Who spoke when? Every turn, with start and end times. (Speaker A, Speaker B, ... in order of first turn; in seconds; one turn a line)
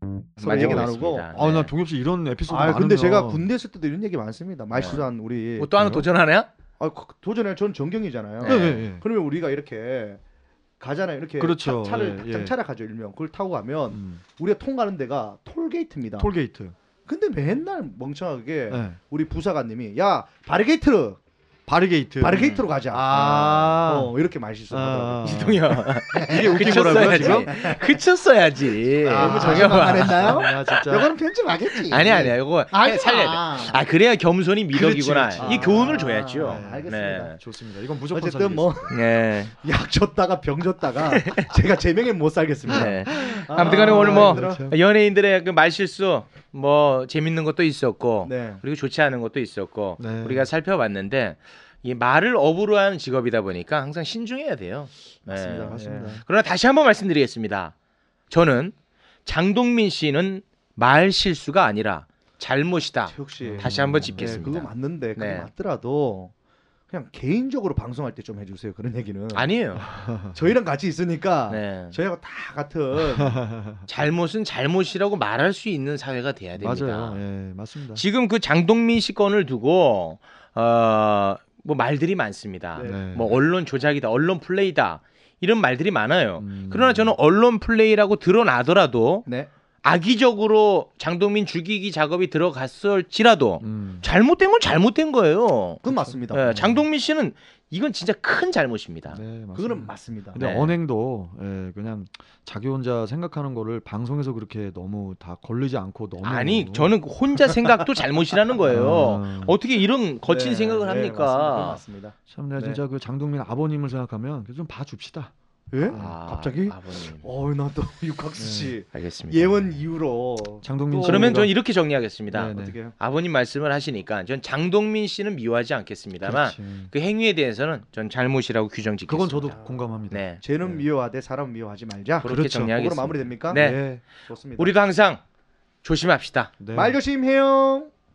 Speaker A: 0.4-1.3
Speaker B: 0.4-1.7
Speaker C: 1.3-3.5
Speaker A: 2.5-5.8
Speaker B: 4.8-6.5
Speaker C: 5.8-6.0
Speaker A: 6.8-10.2
Speaker B: 8.4-8.7
Speaker C: 8.4-9.0
Speaker A: 10.8-16.3
Speaker C: 11.4-12.5
Speaker C: 13.9-14.2
Speaker C: 16.2-16.8
Speaker A: 17.1-21.2
Speaker C: 18.7-19.0
Speaker C: 21.7-24.1
Speaker A: 22.2-28.0
Speaker B: 22.4-22.6
Speaker C: 24.7-27.5
Speaker B: 25.2-30.6
Speaker A: 29.0-33.8
Speaker C: 29.1-31.1
Speaker B: 31.8-37.4
Speaker C: 34.7-39.0
Speaker A: 35.4-37.4
Speaker A: 38.1-39.0
Speaker B: 38.9-39.5
Speaker A: 39.6-44.6
Speaker B: 41.1-41.5
Speaker B: 42.7-57.7
Speaker C: 42.7-44.8
Speaker A: 48.2-48.6
Speaker C: 50.0-50.5
Speaker A: 55.3-56.2
Speaker C: 55.6-56.2
Speaker B: 58.3-58.7
Speaker B: 59.2-65.5
Speaker A: 63.1-66.3
Speaker C: 63.4-64.4
Speaker A: 66.9-69.5
Speaker B: 69.3-69.9
Speaker C: 69.9-70.3
Speaker A: 70.3-73.5
Speaker B: 71.5-72.0
Speaker C: 73.2-73.8
Speaker B: 73.9-77.2
Speaker C: 76.6-78.0
Speaker B: 78.0-89.3
Speaker A: 82.8-83.0
Speaker C: 82.8-83.4
Speaker C: 86.4-87.2
Speaker B: 89.8-99.2
Speaker C: 93.6-94.1
Speaker A: 95.8-96.7
Speaker C: 96.1-96.8
Speaker C: 99.1-106.9
Speaker A: 99.5-100.4
Speaker B: 100.4-100.7
Speaker B: 106.2-111.8
Speaker C: 108.7-109.6
Speaker A: 110.3-112.8
Speaker C: 112.3-116.1
Speaker A: 115.7-121.4
Speaker B: 116.0-117.2
Speaker C: 118.4-118.7
Speaker B: 118.9-119.8
Speaker C: 120.6-121.5
Speaker B: 121.0-129.6
Speaker C: 122.3-122.8
Speaker A: 122.4-123.0
Speaker C: 126.2-126.9
Speaker C: 129.1-130.2
Speaker A: 129.5-129.8
Speaker B: 130.1-130.5
Speaker A: 130.4-134.7
Speaker B: 132.2-134.0
Speaker C: 132.3-132.7
Speaker C: 133.5-134.0
Speaker B: 134.6-135.2
Speaker B: 135.8-136.5
Speaker C: 136.6-137.0
Speaker A: 136.7-137.9